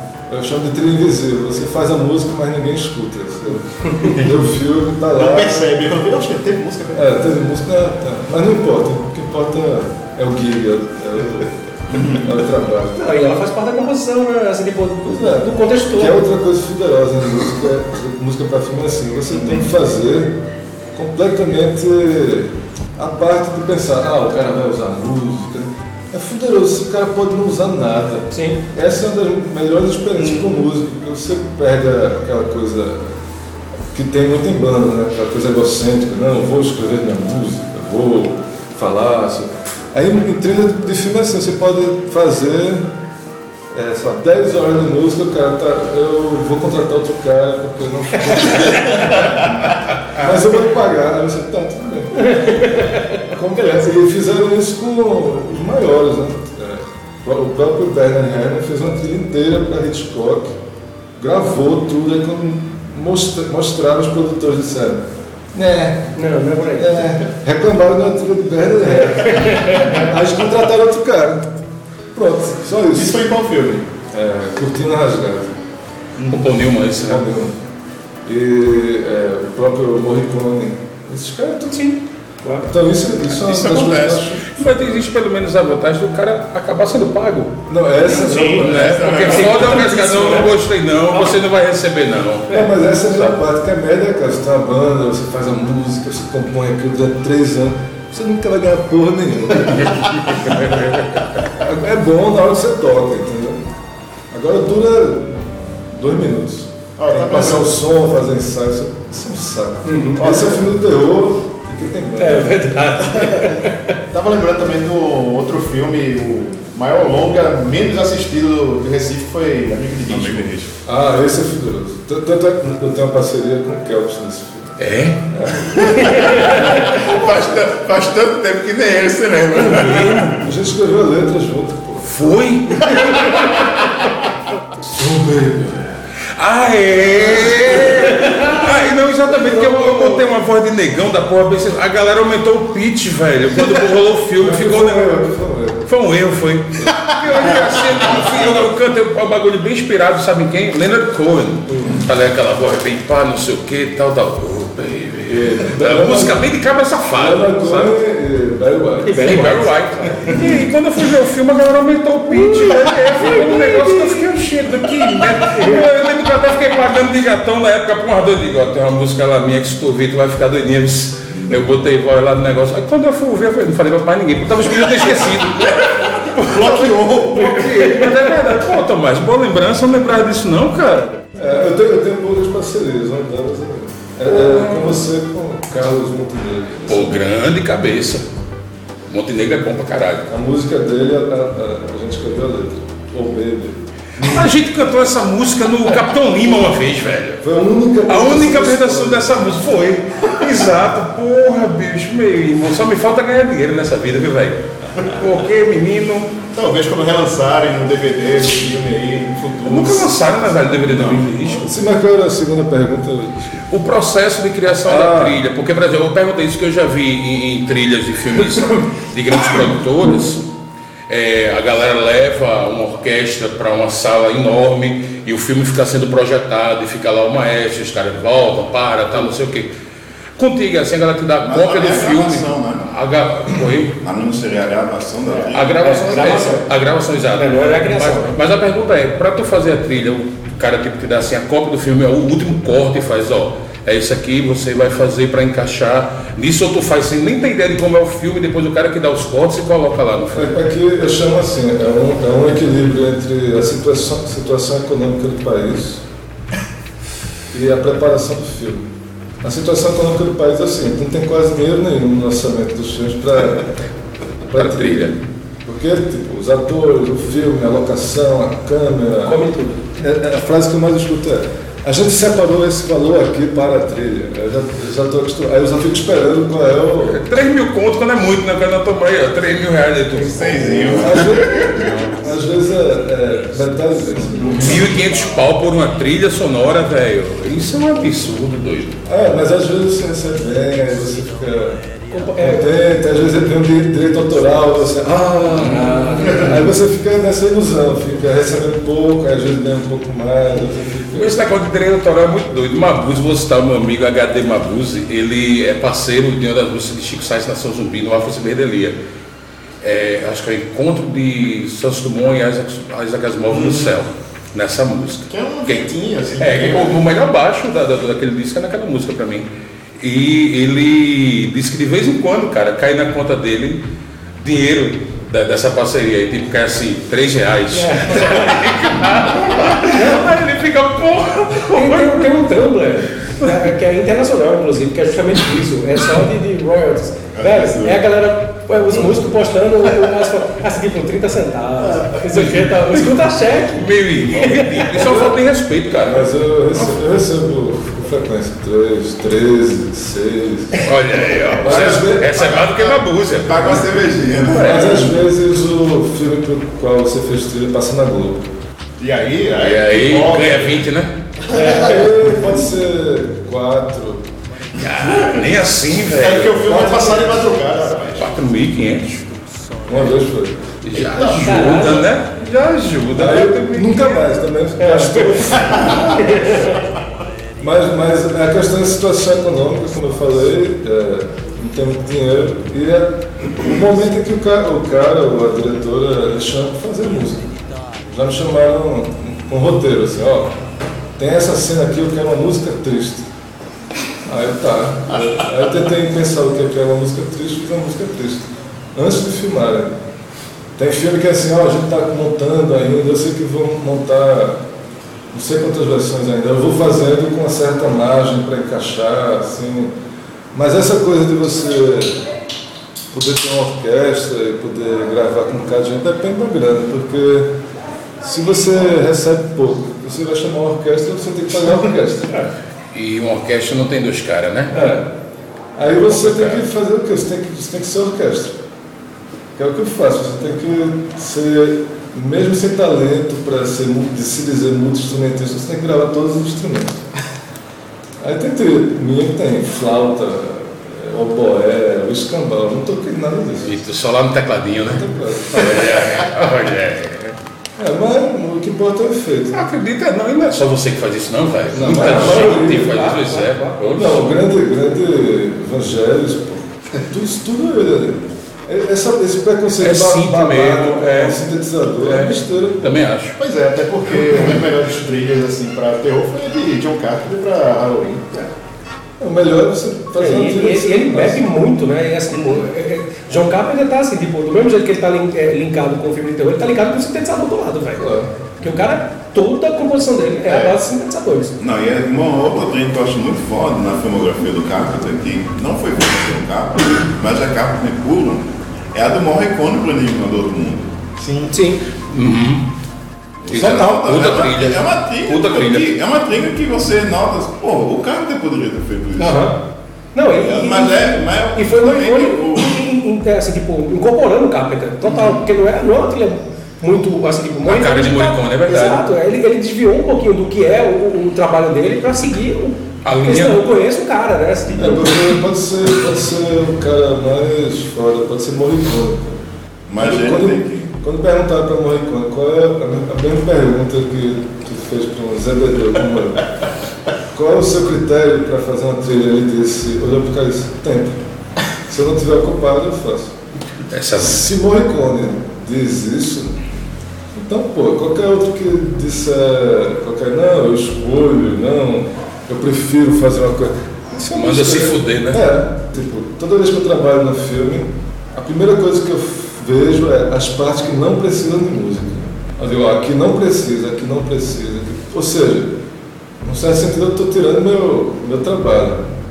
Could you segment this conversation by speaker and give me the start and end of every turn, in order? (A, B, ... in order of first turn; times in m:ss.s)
0:00.3-0:05.7 A
0:05.1-0:07.2 B
0:06.9-0:13.0 A
0:11.9-0:12.2 B
0:13.0-0:16.2 C
0:15.0-0:20.4 A
0:20.9-0:33.1 A
0:28.3-0:28.6 C
0:33.9-0:42.9 A
0:43.7-1:00.6 A
0:52.2-0:53.2 C
1:01.2-1:06.2 A
1:06.1-1:07.2 C
1:06.7-1:11.6 A
1:09.0-1:10.0 C
1:12.1-1:13.3 A
1:12.8-1:13.8 B
1:13.9-1:15.6 A
1:16.3-1:17.2 D
1:16.9-1:17.6 A
1:18.2-1:21.9 A
1:21.7-1:22.7 C
1:22.6-1:24.8 A
1:23.3-1:24.3 E
1:24.4-1:27.6 D
1:27.7-1:28.8 A
1:28.1-1:30.5 C
1:28.2-1:32.5 D
1:28.2-1:29.9 E
1:31.1-1:31.4 C
1:32.5-1:40.6 A
1:39.8-1:41.4 D
1:41.4-1:43.7 A
1:44.3-1:52.9 A
1:47.0-1:47.7 B
1:49.8-1:50.2 C
1:50.2-1:50.6 B
1:52.2-1:54.0 C
1:54.1-2:00.7 B
2:00.8-2:04.8 A
2:04.8-2:05.2 D
2:05.3-2:07.0 A
2:05.9-2:06.6 C
2:06.5-2:10.4 E
2:06.5-2:07.2 D
2:09.6-2:10.3 D
2:10.3-2:12.1 A
2:12.0-2:13.7 D
2:15.0-2:15.9 A
2:16.3-2:25.2 D
2:19.3-2:20.3 A
2:24.4-2:25.9 A
2:25.8-2:38.0 D
2:31.7-2:32.0 A
2:35.3-2:36.4 A
2:37.1-2:39.5 A
2:39.0-2:40.4 C
2:39.1-3:01.3 D
2:42.3-2:44.3 C
2:45.5-2:45.8 C
2:56.4-2:58.0 B
3:01.3-3:07.2 A
3:04.3-3:05.0 D
3:06.9-3:08.2 D
3:09.1-3:10.3 D
3:10.3-3:14.4 A
3:14.2-3:17.4 D
3:17.4-3:19.5 A
3:18.0-3:26.3 D
3:26.5-3:30.1 B
3:29.6-3:31.7 D
3:30.8-3:31.5 B
3:31.6-3:33.6 A
3:33.7-3:40.4 D
3:34.8-3:35.4 A
3:41.1-3:49.7 D
3:50.4-3:54.0 D
3:51.4-3:52.9 E
3:54.0-3:56.4 E
3:55.3-3:56.6 C
3:55.5-4:10.5 D
3:57.4-3:58.4 C
4:10.3-4:16.0 A
4:17.5-4:18.9 A
4:19.4-4:23.7 A
4:24.5-4:29.4 A
4:24.5-4:25.2 D
4:29.2-4:29.8 C
4:30.0-4:37.2 A
4:37.0-4:42.1 D
4:40.2-4:42.1 E
4:40.9-4:45.0 A
4:44.5-4:48.9 D
4:49.0-4:51.8 A
4:52.1-4:52.8 C
4:52.4-5:01.4 A
4:55.5-4:56.4 D
4:55.6-4:56.5 C
4:56.2-4:56.7 B
5:01.1-5:09.0 D
5:09.8-5:19.5 D
5:13.5-5:13.9 B
5:15.3-5:17.0 B
5:20.0-5:23.8 D
5:24.4-5:32.6 D
5:27.7-5:28.8 C
5:29.8-5:30.2 C
5:31.7-5:45.0 C
5:37.3-5:38.0 E
5:42.3-5:46.3 D
5:45.0-5:45.4 A
5:46.0-5:50.8 A
5:50.8-5:53.9 D
5:51.6-5:52.6 A
5:52.4-5:53.0 B
5:53.4-5:55.1 E
5:54.5-5:55.1 D
5:54.5-5:58.5 A
5:59.0-6:00.8 B
5:59.6-6:01.1 D
6:01.5-6:02.0 C
6:01.5-6:01.9 B
6:01.6-6:04.2 A
6:04.8-6:07.2 D
6:06.0-6:08.3 B
6:06.7-6:07.3 A
6:08.2-6:09.3 D
6:09.9-6:10.7 A
6:10.8-6:14.3 D
6:10.9-6:11.6 B
6:11.2-6:12.0 C
6:13.1-6:16.6 A
6:14.8-6:16.8 C
6:15.7-6:16.1 E
6:17.6-6:27.5 A
6:28.1-6:30.5 A
6:31.2-6:33.3 A
6:34.2-6:39.9 A
6:35.1-6:35.4 B
6:40.8-6:44.6 A
6:45.3-6:49.9 A
6:50.5-6:52.2 A
6:53.1-6:57.5 A
6:58.2-7:02.5 A
7:02.9-7:04.8 D
7:04.7-7:05.1 A
7:05.8-7:08.6 A
7:06.1-7:06.6 D
7:09.6-7:17.0 A
7:18.2-7:23.8 A
7:23.6-7:27.4 D
7:24.9-7:25.9 A
7:27.8-7:29.6 A
7:29.5-7:34.4 D
7:31.7-7:33.1 A
7:31.8-7:33.8 C
7:33.9-7:43.0 A
7:39.8-7:41.4 D
7:42.0-7:43.4 D
7:43.4-7:48.5 B
7:49.2-7:51.4 A
7:50.2-8:01.6 C
7:58.0-7:58.3 A
8:00.5-8:00.8 B
8:01.6-8:10.9 E
8:11.2-8:11.5 B
8:11.5-8:11.8 C
8:12.0-8:12.6 D
8:13.4-8:19.5 E
8:13.5-8:15.9 D
8:19.2-8:19.6 C
8:20.1-8:35.3 C
8:20.2-8:22.8 E
8:27.6-8:29.1 D
8:33.0-8:33.6 D
8:34.8-8:39.4 A
8:39.9-8:40.9 E
8:40.0-8:46.5 A
8:47.3-8:51.2 A
8:51.8-8:53.3 A
8:53.9-8:54.5 D
8:54.2-8:56.6 A
8:57.3-9:15.7 A
9:04.3-9:05.5 D
9:16.4-9:19.1 A